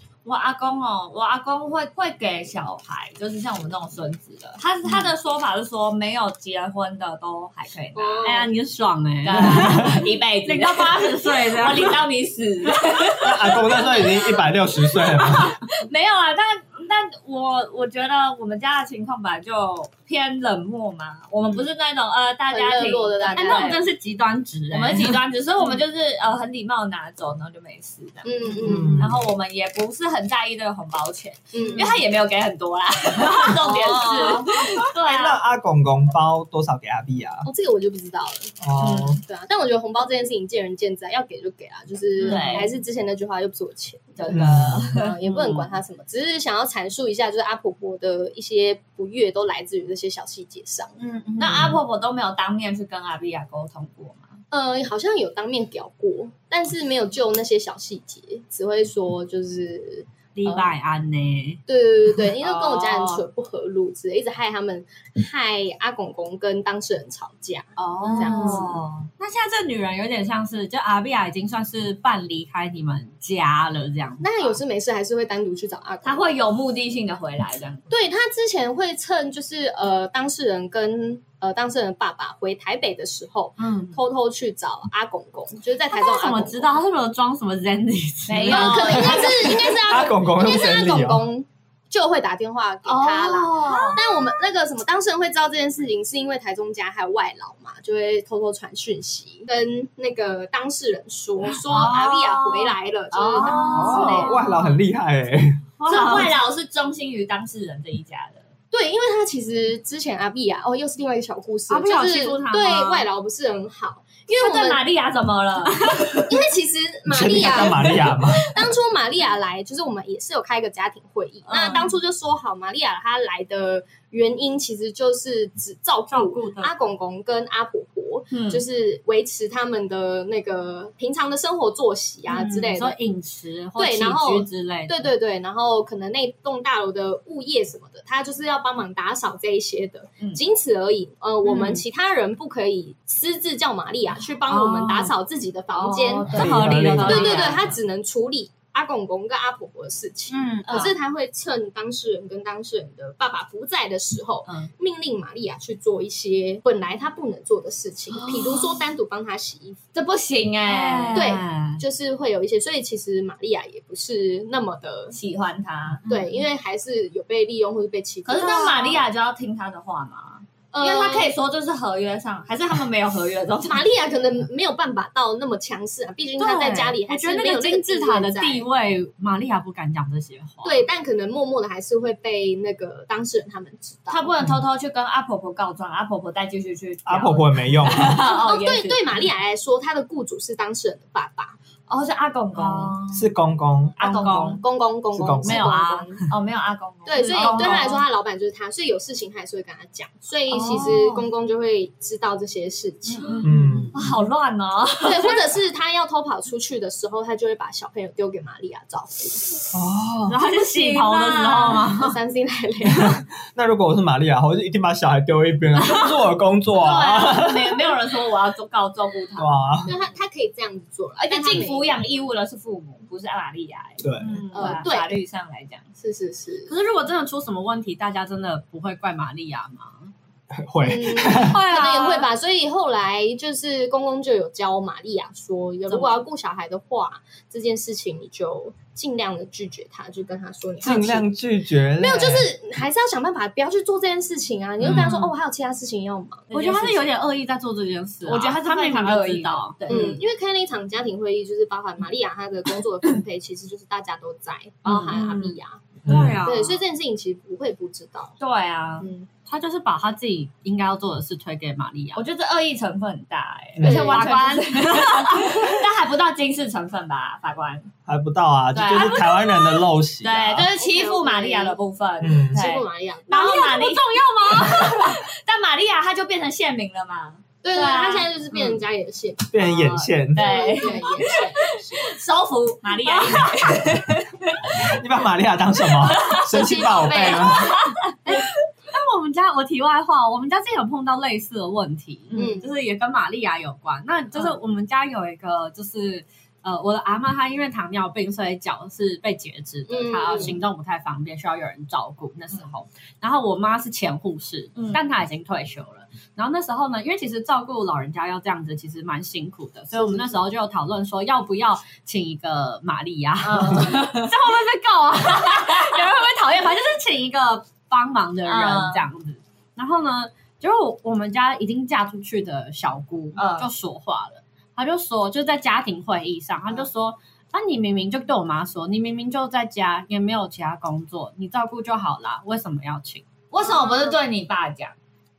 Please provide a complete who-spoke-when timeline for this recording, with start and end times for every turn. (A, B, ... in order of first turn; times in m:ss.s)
0:00.2-0:08.5 A
0:07.9-0:08.5 B
0:08.2-0:12.0 C
0:09.2-0:14.5 A
0:09.6-0:09.9 D
0:13.2-0:15.6 D
0:15.8-0:23.8 A
0:22.5-0:23.8 B
0:23.3-0:25.2 C
0:24.7-0:35.4 A
0:28.2-0:29.0 B
0:28.6-0:29.1 C
0:28.6-0:29.2 D
0:31.5-0:32.0 B
0:33.3-0:34.8 C
0:33.6-0:34.5 B
0:35.0-0:37.5 D
0:37.4-0:38.6 B
0:38.6-0:39.2 D
0:38.8-0:39.1 A
0:39.2-0:50.9 B
0:42.2-0:42.7 C
0:42.2-0:42.7 A
0:44.2-0:45.1 A
0:44.3-0:44.9 D
0:45.2-0:45.7 C
0:51.0-0:51.8 C
0:51.4-0:54.4 A
0:54.5-1:00.7 B
1:00.4-1:01.6 C
1:01.7-1:08.8 B
1:02.4-1:03.2 A
1:07.8-1:14.6 C
1:08.0-1:09.1 A
1:14.2-1:16.3 B
1:16.0-1:17.9 A
1:17.9-1:26.8 B
1:23.6-1:24.0 C
1:25.9-1:29.6 C
1:28.3-1:29.7 A
1:28.5-1:44.4 B
1:29.2-1:31.2 D
1:32.9-1:34.0 A
1:41.5-1:44.8 C
1:43.2-1:44.6 A
1:43.8-1:45.6 D
1:45.8-1:46.3 C
1:45.8-1:48.5 A
1:48.7-1:54.8 B
1:51.7-1:53.1 C
1:54.3-1:56.3 A
1:55.8-1:56.2 C
1:56.3-2:13.0 B
1:57.1-1:58.4 D
2:01.5-2:01.9 C
2:06.1-2:06.7 C
2:08.3-2:08.6 A
2:12.3-2:15.0 C
2:13.8-2:39.8 B
2:21.4-2:21.8 C
2:24.5-2:25.1 C
2:25.8-2:27.7 A
2:26.3-2:27.6 C
2:26.3-2:27.4 D
2:30.3-2:30.9 C
2:30.6-2:30.9 A
2:38.1-2:38.8 C
2:39.9-2:41.6 A
2:40.6-2:41.8 C
2:41.1-2:45.2 B
2:45.1-2:46.3 A
2:46.1-2:49.0 B
2:48.3-2:53.8 A
2:48.4-2:48.9 C
2:50.7-2:51.3 B
2:53.7-2:58.7 B
2:56.4-3:00.8 C
3:00.6-3:04.3 B
3:04.1-3:09.2 A
3:07.1-3:08.2 D
3:08.2-3:11.6 B
3:11.9-3:13.0 A
3:12.6-3:13.2 C
3:13.1-3:14.0 D
3:14.0-3:14.6 A
3:14.0-3:14.6 C
3:14.4-3:16.3 B
3:15.2-3:15.8 D
3:15.4-3:16.3 C
3:16.3-3:18.0 A
3:17.1-3:23.4 B
3:17.2-3:18.0 C
3:20.5-3:21.2 C
3:23.1-3:24.0 C
3:23.3-3:25.4 A
3:23.4-3:24.0 D
3:25.0-3:29.5 B
3:29.7-3:30.4 D
3:30.3-3:32.2 C
3:30.6-3:31.9 A
3:31.9-3:33.2 B
3:33.0-3:37.8 D
3:36.8-3:39.9 A
3:39.4-3:39.9 D
3:39.9-3:42.0 B
3:41.2-3:45.9 A
3:44.0-3:44.3 D
3:44.2-3:44.9 C
3:44.5-3:45.2 B
3:46.0-3:46.7 B
3:46.7-3:50.1 C
3:50.5-3:51.6 D
3:50.8-4:01.3 B
3:51.3-3:52.3 C
3:55.9-3:56.2 C
4:00.8-4:02.5 D
4:02.0-4:07.1 B
4:04.8-4:05.1 D
4:04.8-4:05.3 C
4:06.5-4:10.2 C
4:08.2-4:10.2 A
4:09.9-4:18.4 B
4:14.8-4:15.6 C
4:16.0-4:16.4 D
4:16.1-4:16.7 A
4:16.1-4:16.8 C
4:18.4-4:19.1 A
4:19.0-4:19.3 B
4:19.5-4:22.2 C
4:22.2-4:27.9 A
4:23.8-4:24.3 B
4:23.8-4:25.8 C
4:28.1-4:30.7 D
4:28.7-4:29.2 A
4:28.9-4:29.8 C
4:30.2-4:38.3 A
4:30.7-4:31.8 B
4:32.2-4:32.6 D
4:32.5-4:33.6 B
4:33.3-4:35.2 C
4:37.6-4:42.1 B
4:39.5-4:40.5 D
4:40.3-4:44.9 A
4:40.8-4:41.4 C
4:42.9-4:43.5 C
4:44.7-4:47.8 D
4:45.9-4:46.6 A
4:46.3-4:47.8 B
4:47.3-4:48.5 A
4:48.3-5:33.3 C
4:52.3-4:52.7 B
4:59.9-5:00.6 B
5:04.8-5:05.0 A
5:09.9-5:10.2 B
5:13.4-5:14.4 A
5:15.4-5:16.0 A
5:18.4-5:19.0 A
5:23.4-5:23.7 A
5:33.5-5:35.0 A
5:33.6-5:34.1 B